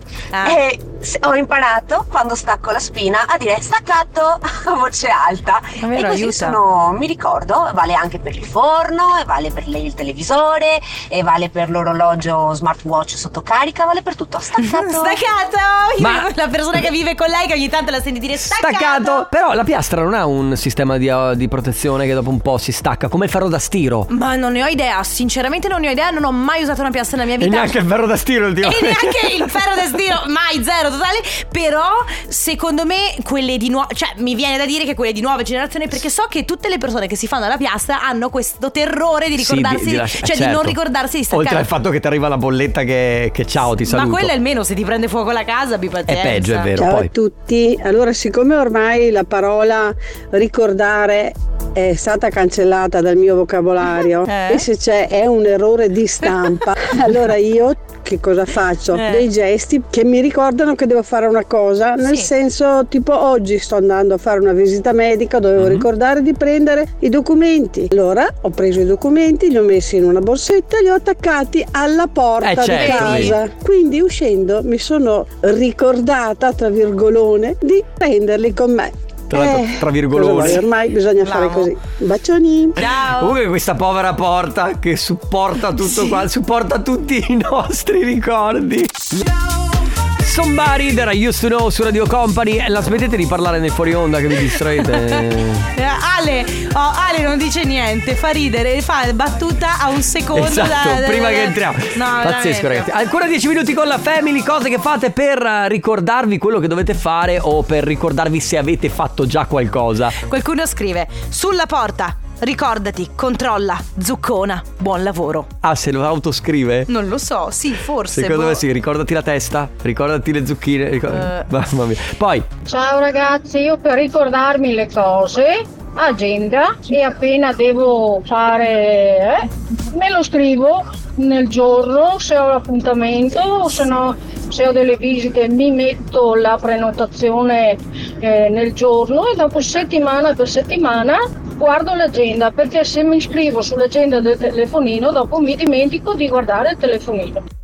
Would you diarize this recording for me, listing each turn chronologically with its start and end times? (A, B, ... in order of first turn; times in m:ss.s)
0:00.3-0:00.6 A
0:00.4-0:15.2 B
0:05.8-0:06.6 A
0:14.6-0:19.3 A
0:16.0-0:16.3 C
0:18.5-0:24.1 C
0:24.1-0:27.8 A
0:27.4-0:29.6 C
0:28.6-0:41.7 A
0:39.4-0:40.8 C
0:41.3-0:44.3 C
0:43.8-0:46.7 A
0:46.1-0:47.1 C
0:46.8-1:22.8 D
0:54.2-0:54.6 A
0:58.9-0:59.2 A
1:02.0-1:02.3 A
1:05.6-1:05.9 C
1:12.4-1:13.3 C
1:12.7-1:13.4 A
1:19.3-1:20.6 C
1:21.2-1:21.7 A
1:22.8-1:23.3 A
1:22.9-1:29.2 C
1:25.8-1:26.2 A
1:30.2-1:35.7 C
1:34.7-1:35.2 A
1:35.7-1:42.9 A
1:40.3-1:50.1 C
1:50.2-1:55.5 A
1:55.6-1:56.9 C
1:56.9-1:58.6 A
1:58.1-2:02.5 C
2:01.1-2:01.5 A
2:02.7-2:27.4 E